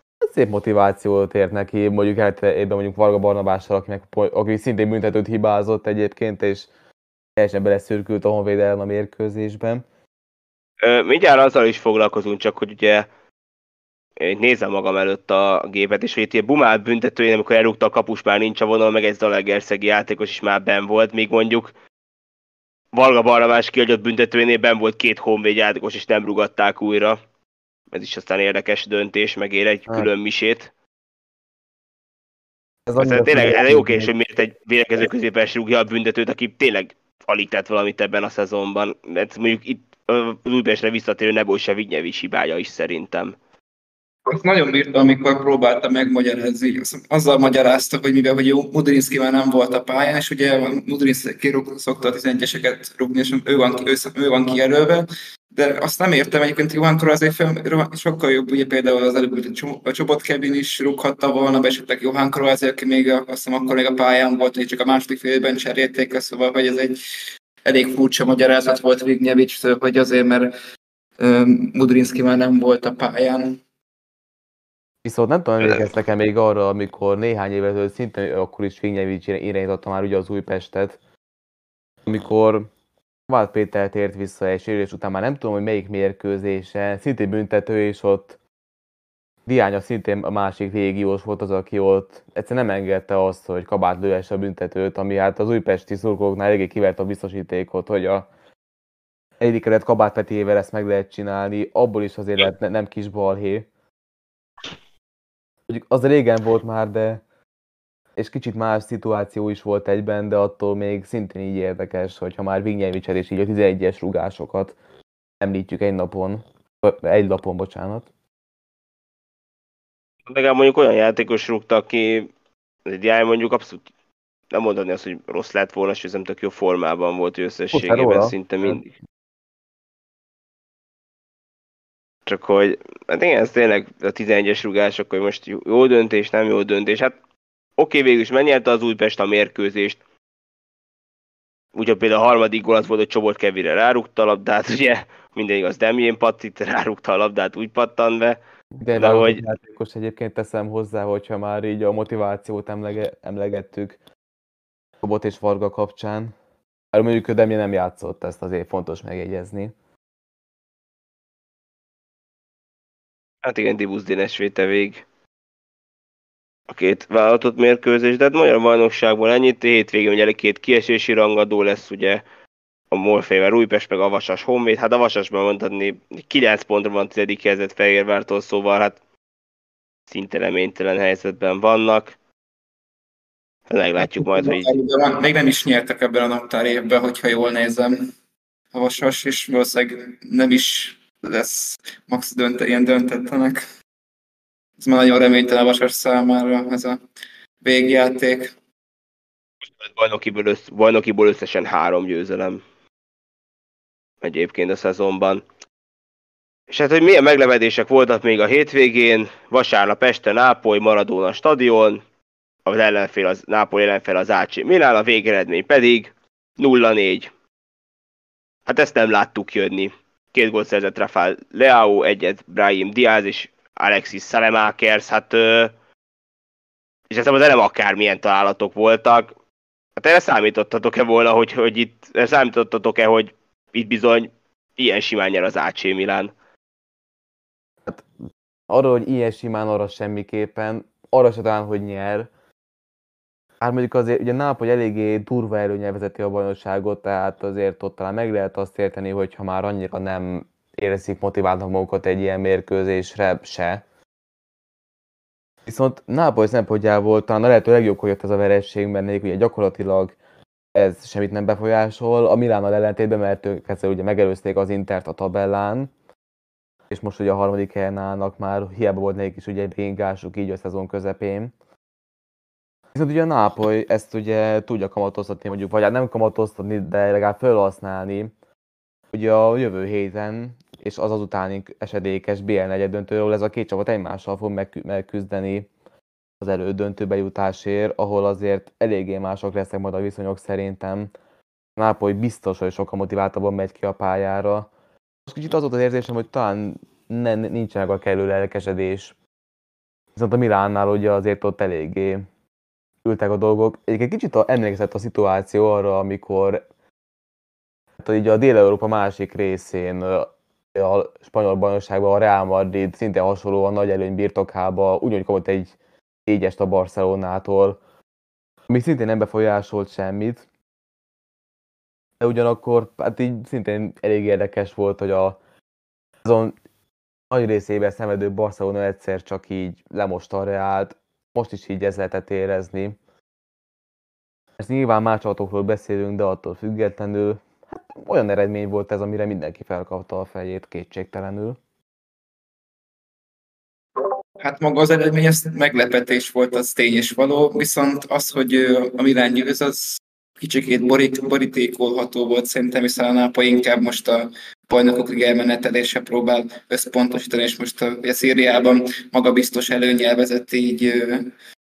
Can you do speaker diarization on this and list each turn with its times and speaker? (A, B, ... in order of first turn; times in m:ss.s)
0:00.2-0:06.7 A
0:07.4-0:09.8 A
0:10.8-0:13.1 B
0:14.2-0:21.7 B
0:22.9-0:27.2 B
0:27.9-0:30.7 B
0:32.9-0:34.1 A
0:33.0-0:43.4 B
0:44.3-1:07.0 C
1:07.6-1:10.5 C
1:11.2-1:13.6 C
1:15.0-1:21.0 A
1:22.0-1:22.7 A
1:23.3-1:28.4 A
1:29.4-1:38.3 A
1:39.4-1:43.7 A
1:45.7-1:47.2 A
1:48.2-1:54.8 A
1:55.4-1:58.1 A
2:00.3-2:02.3 B
2:02.9-2:03.8 B
2:04.5-2:08.9 B
2:07.7-2:08.8 A
2:12.3-2:17.1 B
2:17.8-2:20.0 B
2:21.7-2:28.4 B
2:28.8-2:34.0 A
2:29.0-2:29.4 B
2:35.0-2:36.3 A
2:36.9-2:39.7 A
2:43.4-2:45.0 B
2:46.7-2:52.2 B
2:52.9-2:59.0 B
3:00.1-3:02.1 B
3:03.7-3:04.7 B
3:04.2-3:08.1 C
3:08.7-3:13.6 C
3:14.8-3:17.0 C
3:17.6-3:18.5 C
3:19.8-3:22.6 B
3:24.2-3:25.4 B
3:26.7-3:32.0 B
3:32.6-3:37.3 B
3:38.7-3:45.7 B
3:47.1-3:49.3 B
3:50.0-3:56.3 B
3:58.7-4:02.3 A
4:03.6-4:13.8 A
4:15.7-4:20.2 A
4:20.7-4:25.9 A
4:26.9-4:31.5 A
4:32.9-4:38.3 A
4:39.1-4:45.7 A
4:46.4-4:51.1 A
4:51.8-4:54.7 A
4:55.3-4:59.1 A
5:00.1-5:02.2 A
5:03.0-5:06.7 A
5:08.0-5:15.7 A
5:16.3-5:17.8 A
5:18.7-5:20.4 A
5:22.2-5:25.4 A
5:26.2-5:26.6 A
5:27.3-5:33.0 A
5:34.6-5:41.6 A
5:44.4-6:01.3 C